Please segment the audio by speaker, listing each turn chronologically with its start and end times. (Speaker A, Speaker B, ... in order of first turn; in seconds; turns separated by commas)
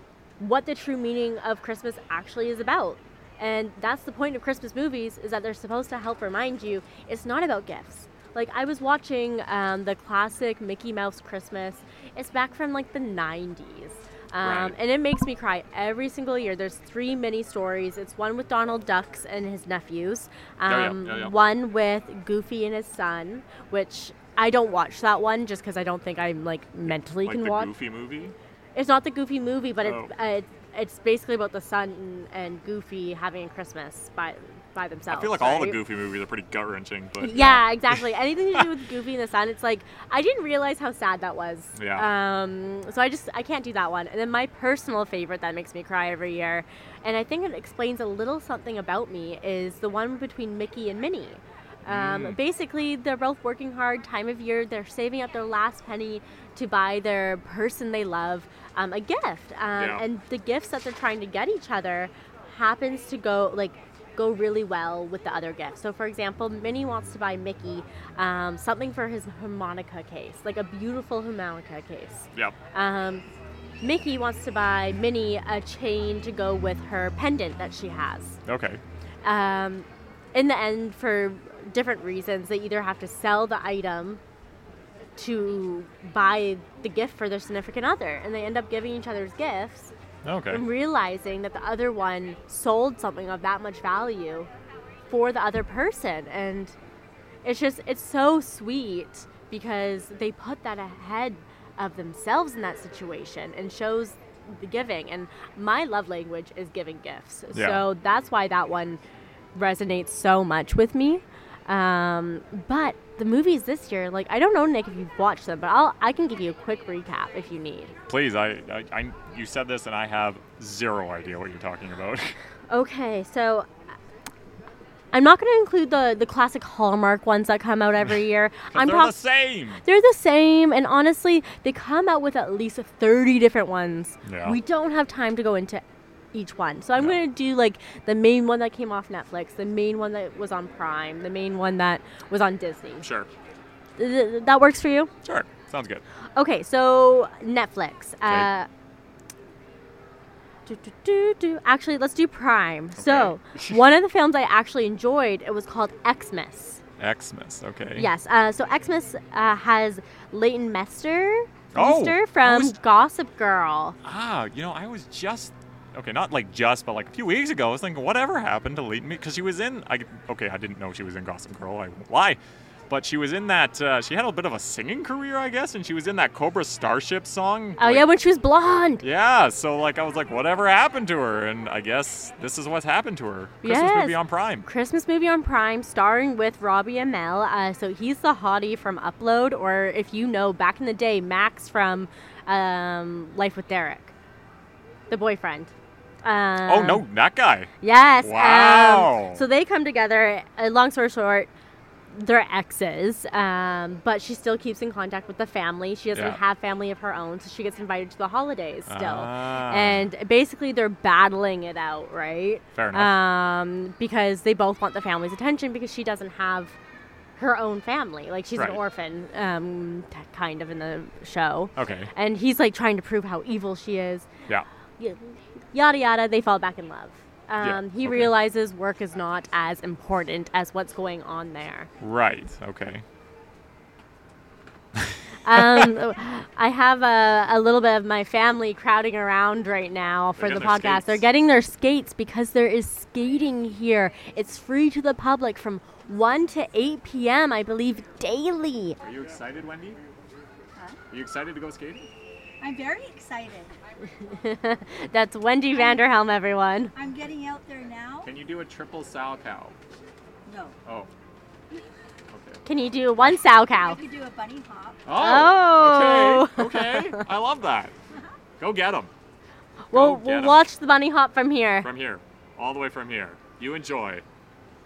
Speaker A: 0.4-27.7, Speaker B: 14.4-14.8, Speaker B: 20.6-21.3, Speaker B: 27.2-28.3, Speaker A: 28.7-35.8, Speaker B: 29.8-30.1, Speaker B: 35.1-38.0, Speaker A: 37.2-73.2, Speaker B: 41.7-42.1, Speaker B: 51.9-52.4, Speaker B: 59.8-60.0, Speaker A: 73.8-78.4, Speaker B: 78.5-78.8, Speaker A: 79.2-84.2, Speaker A: 85.2-89.9, Speaker B: 90.2-90.6, Speaker A: 90.5-94.5, Speaker A: 95.1-96.7, Speaker A: 97.4-109.0, Speaker B: 107.5-107.8, Speaker A: 109.5-117.9, Speaker B: 118.1-122.3, Speaker A: 122.7-123.7, Speaker A: 125.1-129.2, Speaker B: 128.7-129.8, Speaker A: 129.8-143.1, Speaker B: 134.2-134.6, Speaker B: 143.0-143.3, Speaker A: 144.0-145.1, Speaker B: 145.2-146.0, Speaker A: 146.3-148.7, Speaker A: 150.7-156.8, Speaker B: 153.0-153.8, Speaker B: 157.0-158.1, Speaker A: 157.9-164.0, Speaker B: 161.7-162.7, Speaker B: 164.0-178.0, Speaker A: 177.8-179.0, Speaker B: 179.0-184.7, Speaker A: 183.6-194.1, Speaker A: 195.1-195.7, Speaker A: 196.2-197.0, Speaker B: 196.6-199.4, Speaker A: 197.8-201.5, Speaker A: 202.1-216.8, Speaker B: 206.1-206.4, Speaker B: 208.9-210.1, Speaker B: 212.7-213.2, Speaker A: 217.4-224.3, Speaker B: 218.5-218.8, Speaker B: 221.8-222.1, Speaker A: 225.0-231.9, Speaker B: 227.6-228.3, Speaker B: 232.0-233.0, Speaker B: 234.9-235.9, Speaker A: 235.4-249.0, Speaker B: 240.4-241.2, Speaker B: 249.0-250.0, Speaker B: 251.1-252.1, Speaker C: 252.6-253.7, Speaker A: 254.2-256.9, Speaker C: 256.9-258.3, Speaker B: 258.2-259.8, Speaker C: 260.4-260.8, Speaker B: 262.3-262.6, Speaker A: 262.6-264.0, Speaker C: 263.8-265.0, Speaker B: 265.0-267.9, Speaker A: 265.1-267.2, Speaker B: 268.6-269.1, Speaker A: 269.9-271.9, Speaker B: 269.9-270.6, Speaker B: 271.8-274.2